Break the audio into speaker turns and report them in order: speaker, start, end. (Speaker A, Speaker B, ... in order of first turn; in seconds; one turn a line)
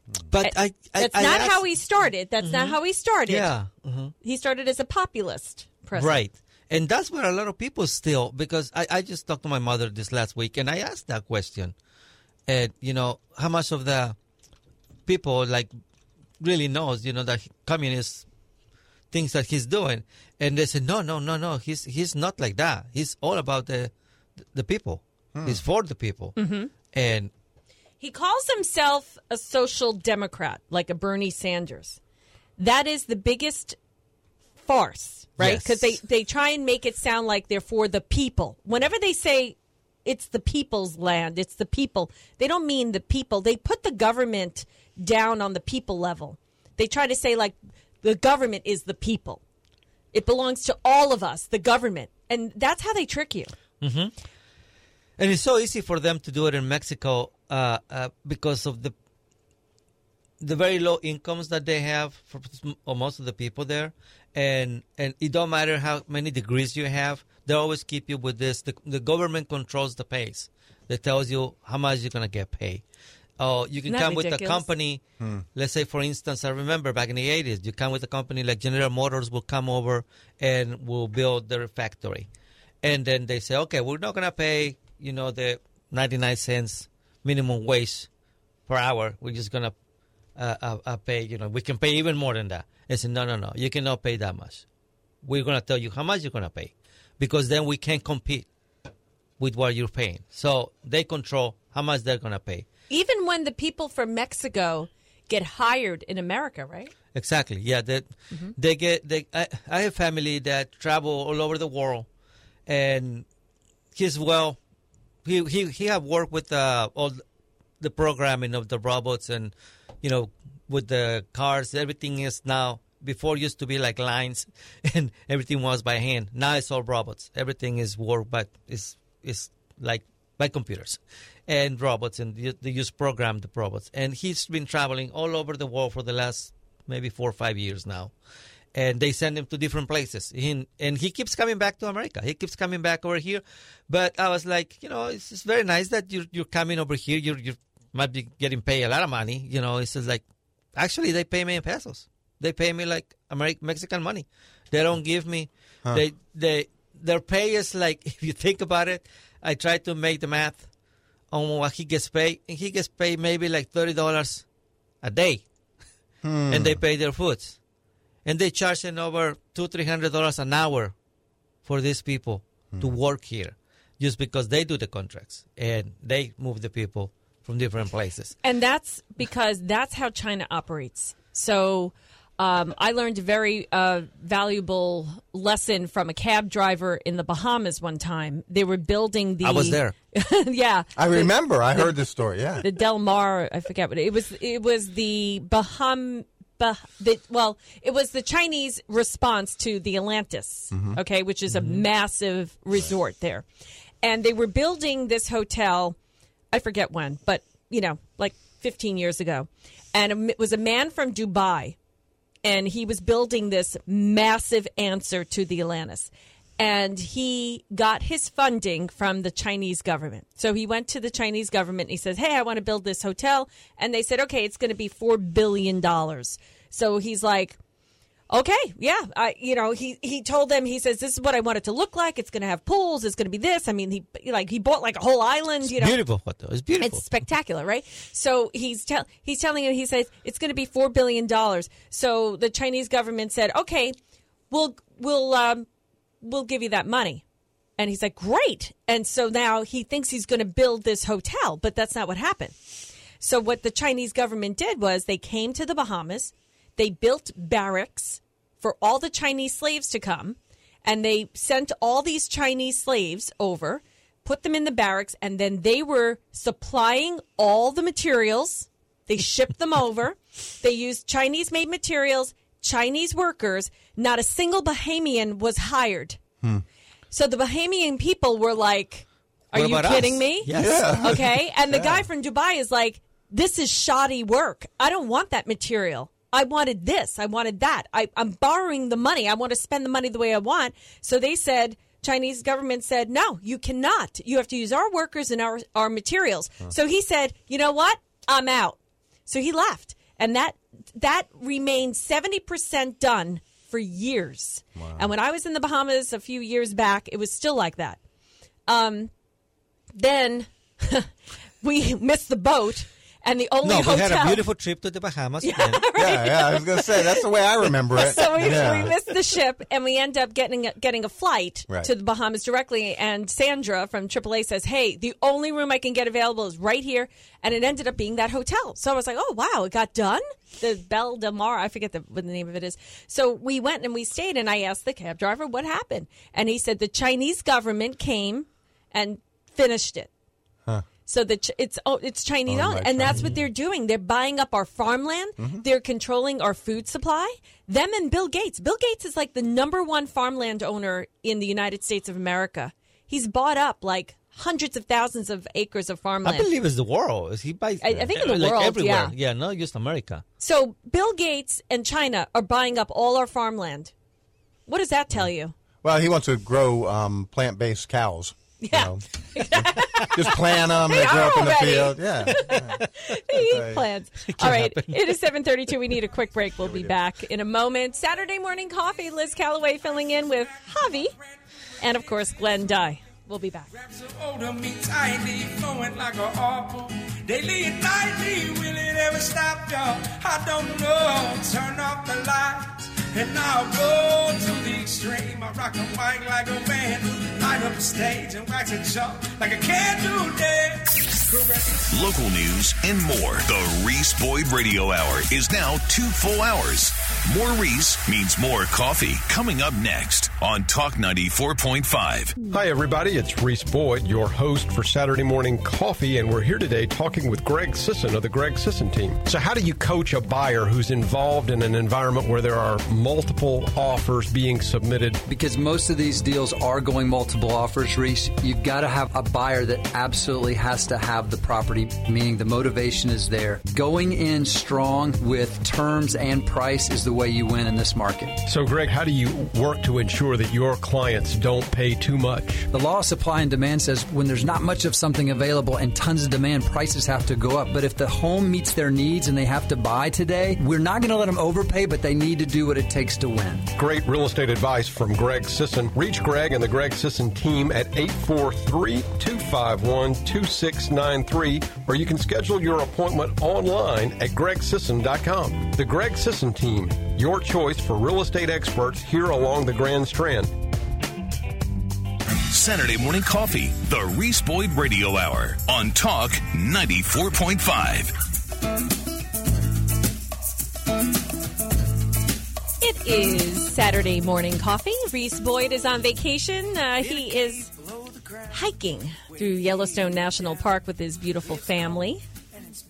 Speaker A: 0.3-1.6
Speaker B: 0.4-3.5
Speaker A: 2.4-4.1
Speaker B: 4.2-6.2
Speaker A: 6.0-11.7
Speaker A: 12.5-14.2
Speaker A: 15.1-15.7
Speaker A: 16.4-18.2
Speaker A: 19.1-23.9
Speaker A: 24.5-26.4
Speaker C: 25.3-25.6
Speaker B: 26.4-26.7
Speaker A: 26.9-27.3
Speaker B: 28.0-32.0
Speaker B: 32.6-33.8
Speaker B: 34.6-49.4
Speaker A: 35.4-36.0
Speaker B: 50.1-53.5
Speaker A: 53.8-54.1
Speaker A: 55.2-58.9
Speaker A: 60.4-72.8
Speaker A: 73.4-75.0
Speaker B: 73.9-74.7
Speaker A: 75.5-82.3
Speaker A: 82.8-88.1
Speaker A: 88.7-89.8
Speaker A: 90.3-94.6
Speaker A: 95.2-98.5
Speaker A: 99.4-102.7
Speaker B: 102.9-106.9
Speaker A: 107.1-112.1
Speaker A: 112.7-113.3
Speaker A: 113.9-114.6
Speaker A: 115.2-117.2
Speaker A: 117.8-138.1
Speaker A: 138.7-150.2
Speaker A: 150.7-160.7
Speaker A: 161.3-164.4
Speaker A: 165.0-165.4
Speaker C: 166.2-166.8
Speaker A: 166.5-167.6
Speaker A: 168.2-170.9
Speaker A: 171.6-178.3
Speaker B: 178.4-192.0
Speaker A: 189.4-189.9
Speaker C: 190.9-192.6
Speaker B: 192.6-203.4
Speaker C: 200.7-201.0
Speaker A: 201.5-201.8
Speaker B: 204.0-205.9
Speaker B: 206.5-211.8
Speaker B: 212.4-227.6
Speaker B: 228.3-236.0
Speaker A: 235.6-237.1
Speaker B: 236.8-243.9
Speaker B: 244.5-245.7
Speaker B: 246.2-247.2
Speaker B: 247.8-252.6
Speaker B: 253.2-276.2
Speaker B: 277.1-308.0
Speaker A: 279.5-281.2
Speaker C: 280.5-282.1
Speaker C: 304.7-305.1
Speaker B: 308.7-309.1
Speaker B: 309.9-311.1
Speaker B: 311.6-314.4
Speaker A: 313.6-315.8
Speaker B: 315.4-317.2
Speaker C: 316.0-318.9
Speaker B: 317.9-340.1
Speaker A: 318.4-318.7
Speaker B: 341.0-356.5
Speaker C: 342.5-343.4
Speaker A: 343.1-343.4
Speaker A: 356.2-360.2
Speaker B: 357.8-359.1
Speaker B: 360.4-363.9
Speaker B: 364.7-365.5
Speaker C: 365.8-369.0
Speaker B: 368.6-381.1
Speaker C: 370.1-373.9
Speaker A: 374.3-375.1
Speaker C: 376.6-376.9
Speaker B: 381.8-383.7
Speaker D: 383.8-401.8
Speaker E: 401.9-412.3
Speaker F: 412.5-425.2
Speaker G: 425.3-438.4
Speaker F: 438.5-442.7
Speaker G: 442.7-453.7
Speaker F: 453.8-470.5
Speaker E: 472.5-478.1
Speaker B: 482.8-487.7
Speaker B: 488.5-492.2